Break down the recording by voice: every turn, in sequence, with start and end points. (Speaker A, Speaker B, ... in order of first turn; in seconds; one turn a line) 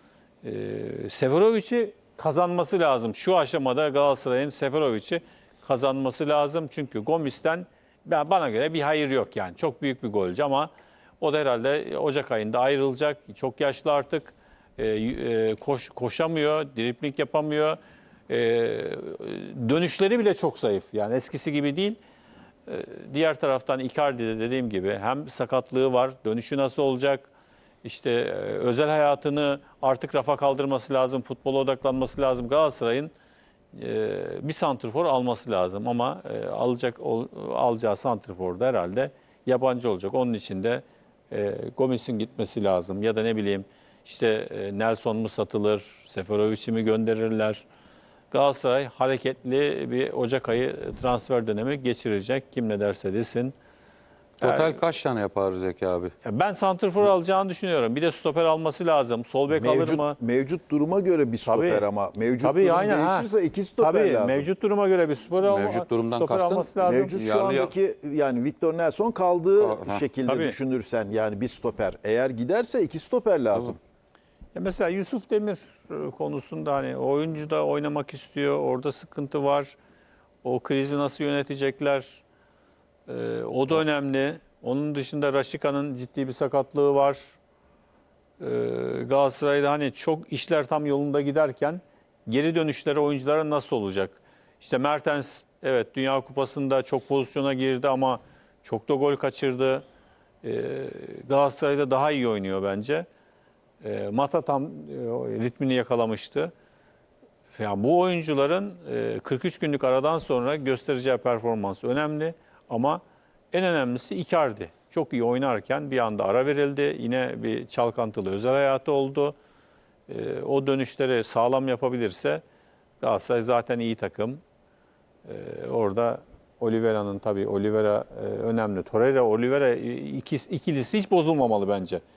Speaker A: 0.4-17.8
Speaker A: 18.3-22.0
Speaker A: 22.6-27.3
Speaker A: 27.8-33.1
Speaker A: 33.7-47.6
Speaker A: 48.3-53.5
Speaker A: 54.4-54.8
Speaker B: 54.4-56.1
Speaker A: 56.2-60.2
Speaker C: 59.5-64.5
Speaker A: 61.4-61.9
Speaker A: 62.4-67.1
Speaker B: 65.4-67.7
Speaker C: 66.8-73.8
Speaker B: 69.6-70.0
Speaker A: 70.2-70.5
Speaker A: 74.5-79.8
Speaker A: 80.4-82.2
Speaker A: 83.1-87.3
Speaker A: 88.4-99.8
Speaker A: 100.4-103.0
Speaker A: 103.8-106.5
Speaker A: 107.5-119.4
Speaker A: 120.1-122.4
Speaker A: 123.0-124.4
Speaker A: 125.2-132.0